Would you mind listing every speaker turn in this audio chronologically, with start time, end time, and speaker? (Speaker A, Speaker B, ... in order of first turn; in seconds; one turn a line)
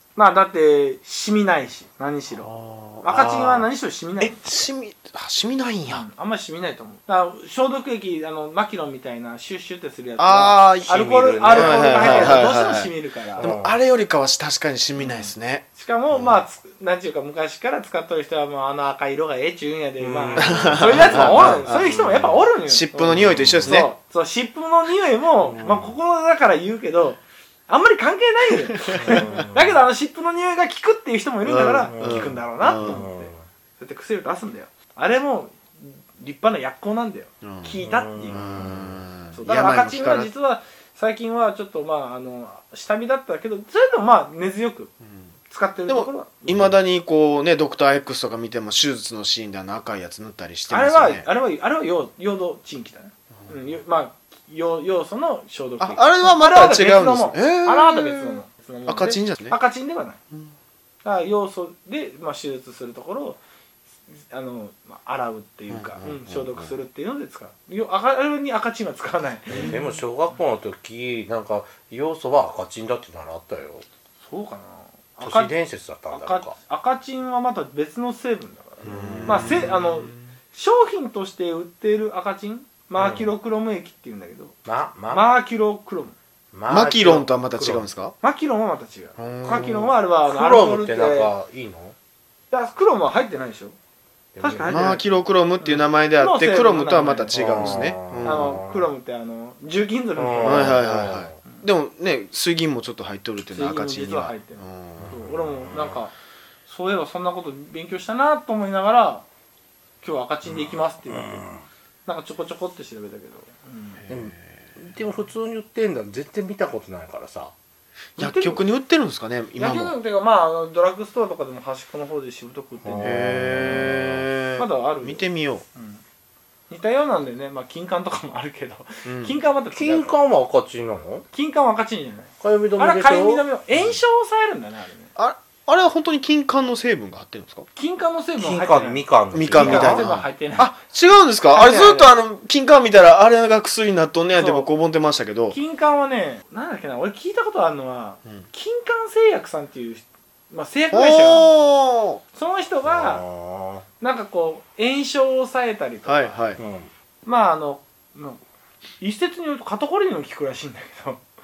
Speaker A: 0.1-2.5
Speaker B: 2.3-6.0
Speaker A: 3.0-4.4
Speaker A: 5.9-13.5
Speaker B: 10.2-16.4
Speaker C: 10.8-12.5
Speaker C: 13.4-13.8
Speaker A: 15.0-38.7
Speaker C: 20.0-22.5
Speaker B: 20.4-21.9
Speaker B: 22.6-23.9
Speaker C: 23.1-23.8
Speaker C: 25.4-25.9
Speaker B: 28.9-29.3
Speaker C: 28.9-29.8
Speaker B: 31.4-33.0
Speaker C: 31.9-33.4
Speaker B: 37.4-37.8
Speaker C: 37.8-39.0
Speaker B: 38.3-40.3
Speaker A: 39.3-44.9
Speaker B: 45.0-45.3
Speaker A: 45.5-46.8
Speaker B: 45.9-51.3
Speaker A: 50.7-60.2
Speaker B: 55.8-59.6
Speaker A: 61.0-63.4
Speaker A: 64.1-69.7
Speaker B: 65.7-66.7
Speaker B: 69.5-70.0
Speaker C: 69.5-73.8
Speaker A: 74.2-75.5
Speaker C: 75.2-76.5
Speaker A: 76.1-84.5
Speaker B: 78.8-80.2
Speaker C: 78.9-79.6
Speaker C: 83.0-83.3
Speaker C: 84.7-85.3
Speaker A: 85.1-86.2
Speaker C: 86.5-87.9
Speaker B: 86.7-88.1
Speaker A: 88.2-91.3
Speaker B: 89.2-89.9
Speaker C: 89.5-89.7
Speaker C: 90.2-91.9
Speaker A: 92.5-93.8
Speaker C: 94.3-94.8
Speaker A: 94.4-100.8
Speaker B: 94.6-98.6
Speaker C: 97.3-98.9
Speaker C: 100.2-101.3
Speaker B: 100.4-105.3
Speaker A: 103.5-106.1
Speaker C: 105.0-106.0
Speaker A: 106.7-109.2
Speaker A: 110.0-111.5
Speaker C: 110.5-111.7
Speaker A: 112.0-114.0
Speaker B: 114.0-114.4
Speaker C: 114.1-117.5
Speaker A: 118.2-118.6
Speaker B: 118.2-119.9
Speaker A: 119.6-123.2
Speaker C: 122.8-124.3
Speaker B: 123.0-125.6
Speaker A: 124.6-125.2
Speaker A: 125.7-126.0
Speaker A: 126.7-130.1
Speaker B: 129.0-129.4
Speaker C: 129.7-131.2
Speaker A: 131.3-135.1
Speaker C: 132.4-133.4
Speaker B: 135.2-137.7
Speaker A: 137.8-140.7
Speaker C: 138.4-140.1
Speaker B: 139.3-145.6
Speaker A: 141.5-142.1
Speaker A: 144.3-144.7
Speaker A: 145.5-151.5
Speaker B: 150.9-152.2
Speaker A: 152.3-153.2
Speaker C: 152.8-153.8
Speaker A: 154.0-156.3
Speaker B: 156.1-156.6
Speaker C: 156.6-156.9
Speaker A: 157.2-158.4
Speaker A: 159.0-161.2